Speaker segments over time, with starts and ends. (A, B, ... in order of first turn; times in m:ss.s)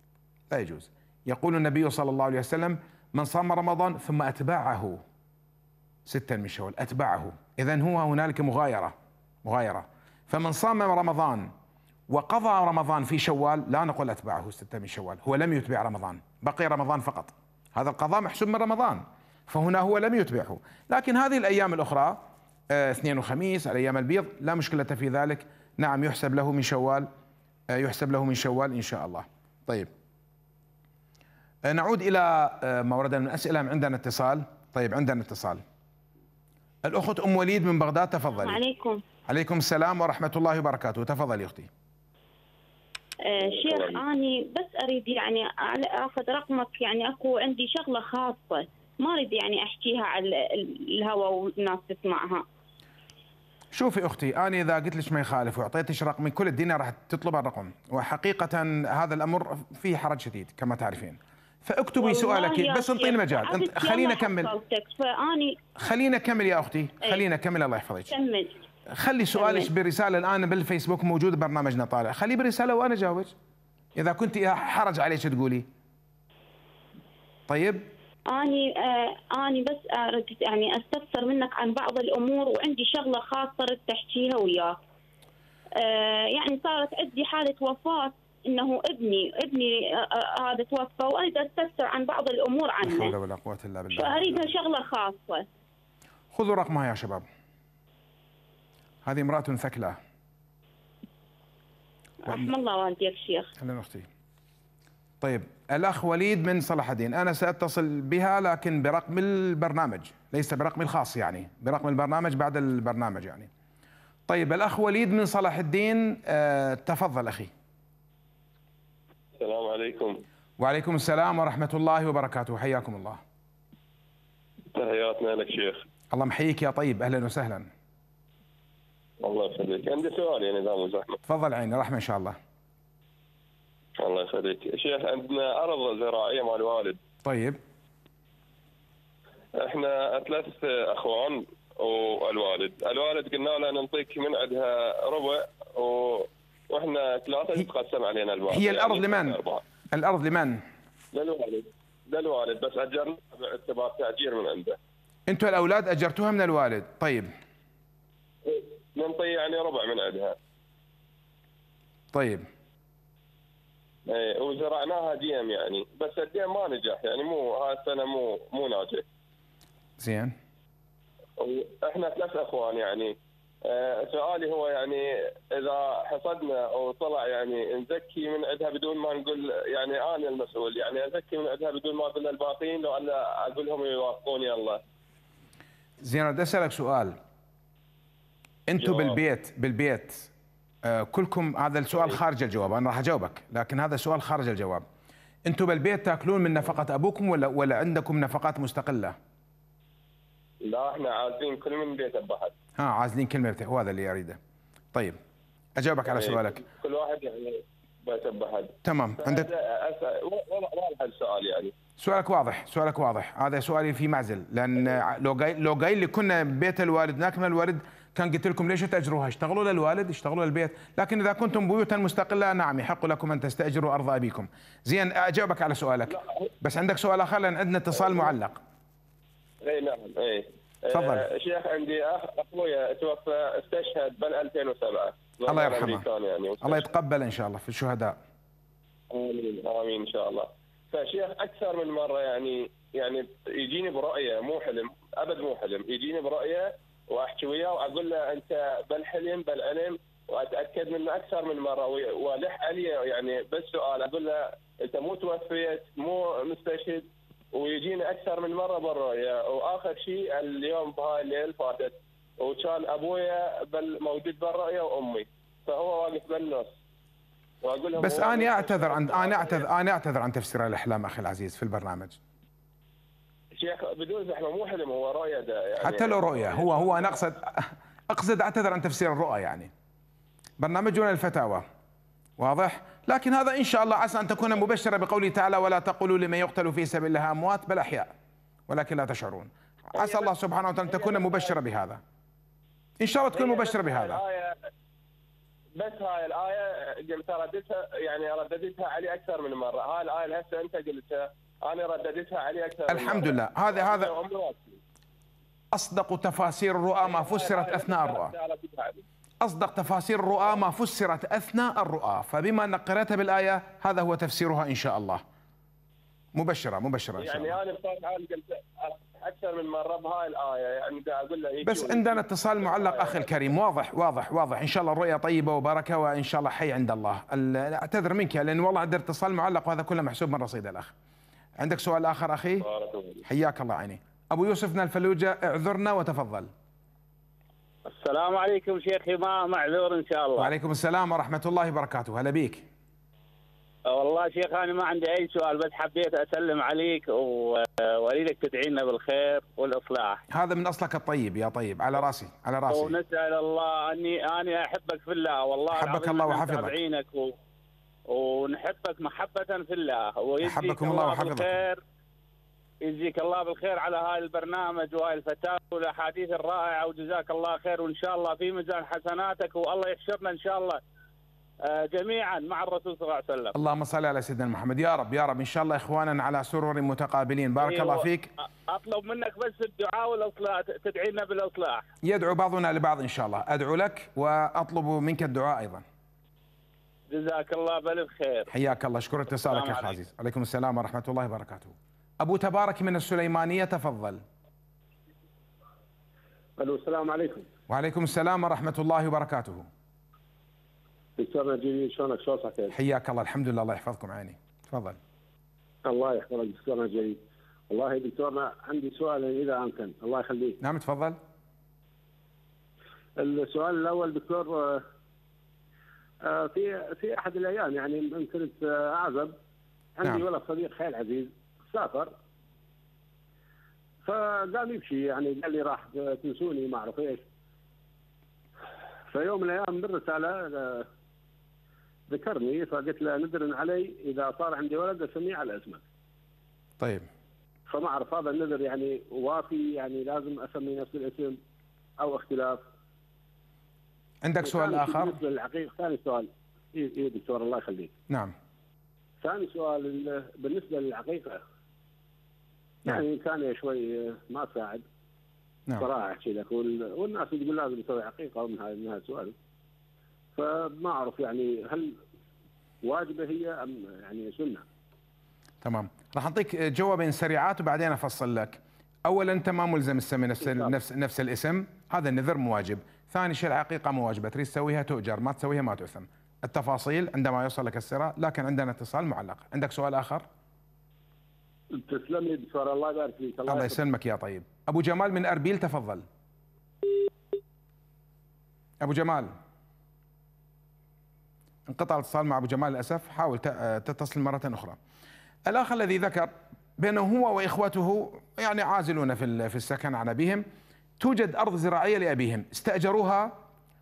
0:00.5-0:05.0 A
0:06.1-0:11.5 A
0:12.1-0:22.2 A
0:22.7-0:27.1 A
0:27.7-0:29.9 A
0:31.7-0:35.6 A
0:36.8-0:38.6 A
0:38.4-0:39.0 B
0:39.3-0:41.7 A
0:43.2-0:52.4 B
0:43.4-0:44.0 C
0:53.7-1:04.5 A
1:02.0-1:05.6 B
1:05.8-1:08.1 A
1:08.1-1:08.6 B
1:08.9-1:13.3 A
1:09.3-1:09.7 B
1:14.0-1:15.6 A
1:17.5-1:17.9 A
1:18.3-1:24.8 B
1:25.8-1:33.1 B
1:32.8-1:34.5 A
1:33.9-1:35.4 B
1:36.3-1:37.2 A
1:39.0-1:40.0 A
1:42.2-1:43.5 B
1:43.6-1:44.1 A
1:45.2-1:53.5 A
1:54.3-1:57.5 A
1:59.4-2:00.2 C
2:00.6-2:03.2 A
2:04.7-2:05.8 C
2:06.1-2:07.7 A
2:09.2-2:11.2 C
2:11.3-2:12.4 A
2:14.0-2:17.0 C
2:17.2-2:17.6 A
2:19.6-2:29.6 C
2:28.5-2:29.4 A
2:29.9-2:30.6 A
2:31.1-2:34.8 C
2:35.3-2:37.3 A
2:38.4-2:40.4 C
2:42.1-2:42.5 A
2:44.1-2:49.0 C
2:50.0-2:50.4 A
2:51.4-3:04.8 C
3:06.0-3:07.2 A
3:08.7-3:10.3 A
3:08.8-3:09.2 C
3:10.8-3:14.8 A
3:15.4-3:19.1 A
3:20.6-3:22.5 C
3:22.8-3:24.4 A
3:25.8-3:26.6 A
3:26.1-3:31.7 C
3:28.8-3:29.5 A
3:32.0-3:48.6 A
3:49.6-3:56.8 C
3:50.9-3:51.3 A
3:55.5-3:56.1 A
3:56.6-3:58.2 A
3:59.1-4:26.7 C
4:27.6-4:29.6 C
4:28.0-4:32.2 A
4:33.6-4:37.2 C
4:35.8-4:39.7 A
4:40.6-4:41.6 A
4:42.4-4:48.1 A
4:48.7-4:52.0 A
4:50.0-4:50.3 C
4:50.8-4:51.5 C
4:53.0-4:54.2 A
4:53.4-4:54.6 C
4:55.8-5:04.8 C
5:02.9-5:04.1 A
5:05.7-5:08.3 A
5:07.0-5:09.0 C
5:09.4-5:15.2 A
5:16.4-5:17.6 A
5:17.2-5:23.4 C
5:21.6-5:30.9 A
5:31.6-5:32.6 A
5:32.6-5:33.2 C
5:33.2-5:36.5 A
5:37.9-5:40.5 D
5:40.4-5:42.6 A
5:43.9-5:50.2 D
5:50.3-5:53.0 A
5:52.7-5:57.3 D
5:55.7-5:56.8 A
5:58.1-6:01.8 D
6:00.4-6:01.6 A
6:02.8-6:10.8 D
6:11.7-6:13.6 D
6:13.5-6:18.3 A
6:17.6-6:18.0 D
6:18.7-6:21.8 D
6:22.0-6:25.8 A
6:27.1-6:28.5 D
6:28.5-6:34.2 A
6:29.4-6:29.9 D
6:36.6-6:37.5 E
6:37.7-6:39.7 A
6:41.2-6:42.8 E
6:42.7-6:45.0 A
6:45.9-6:50.6 E
6:50.6-6:51.2 A
6:53.2-6:54.8 E
6:56.2-6:59.4 E
7:00.0-7:02.1 E
7:04.0-7:07.2 E
7:09.1-7:10.9 E
7:12.1-7:15.8 E
7:16.8-7:17.1 A
7:17.7-7:21.4 E
7:22.0-7:22.6 E
7:24.2-7:25.2 A
7:24.4-7:27.9 E
7:29.2-7:31.4 E
7:32.9-7:34.8 E
7:35.8-7:39.4 E
7:40.4-7:42.0 E
7:42.8-7:44.6 E
7:45.6-8:00.2 A
7:50.4-7:50.7 E
8:01.7-8:03.8 E
8:03.4-8:06.0 A
8:08.8-8:09.3 A
8:11.7-8:14.8 A
8:15.5-8:20.4 A
8:21.0-8:23.4 A